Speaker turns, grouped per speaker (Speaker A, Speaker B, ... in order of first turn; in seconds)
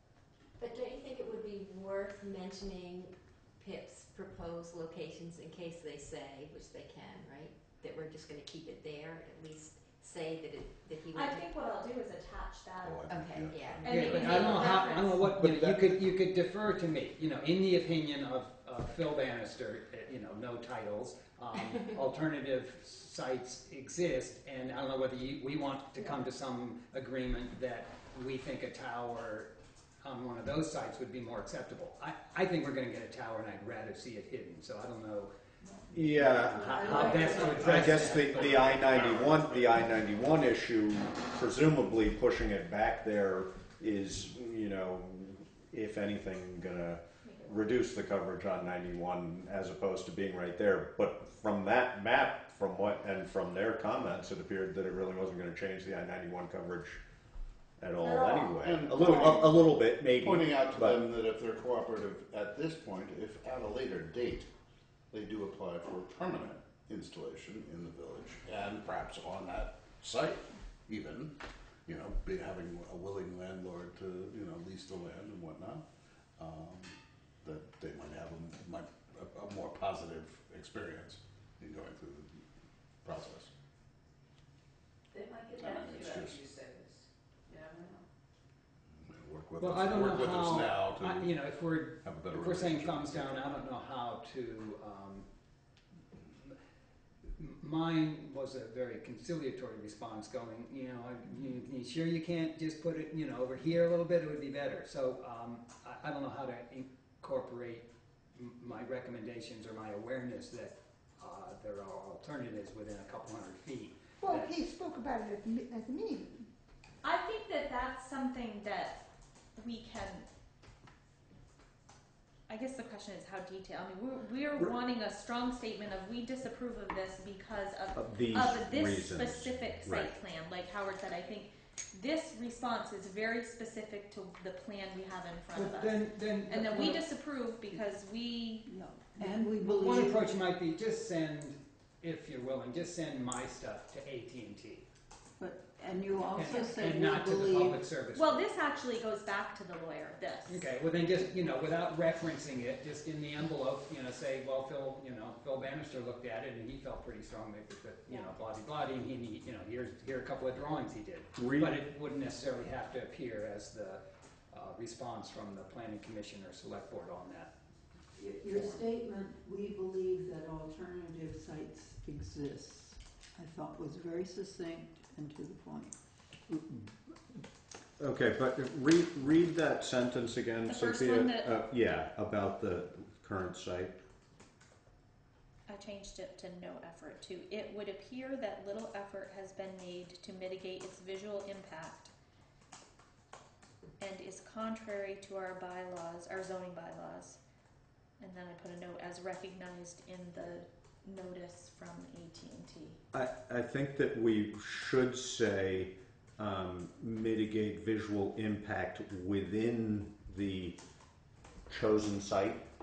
Speaker A: 0.6-11.4, 13.1-14.8
Speaker B: 11.1-15.2, 47.2-47.5, 117.0-119.0, 119.5-120.3, 122.5-138.7, 148.1-150.7, 158.1-158.3, 180.7-181.6, 185.7-192.1, 194.0-197.4, 198.2-203.0
Speaker C: 12.8-14.8, 58.1-64.5, 65.1-71.3, 71.8-75.8, 76.4-82.4, 83.0-83.5, 85.6-86.4, 89.0-91.4, 92.0-93.6
Speaker D: 13.8-35.3, 36.2-38.9, 89.6-95.3, 97.3-114.6, 135.5-137.0, 139.2-144.8, 146.3-148.5, 150.5-167.5, 168.5-168.8
Speaker E: 15.4-15.9, 35.9-57.0, 57.8-61.0, 127.9-130.1, 161.3-161.8, 176.5-176.9, 178.0-184.0, 203.1-210.8, 211.7-212.6
Speaker F: 35.6-38.4, 138.7-140.2, 145.4-147.8, 168.2-175.9
Speaker G: 85.1-88.0
Speaker H: 114.2-116.5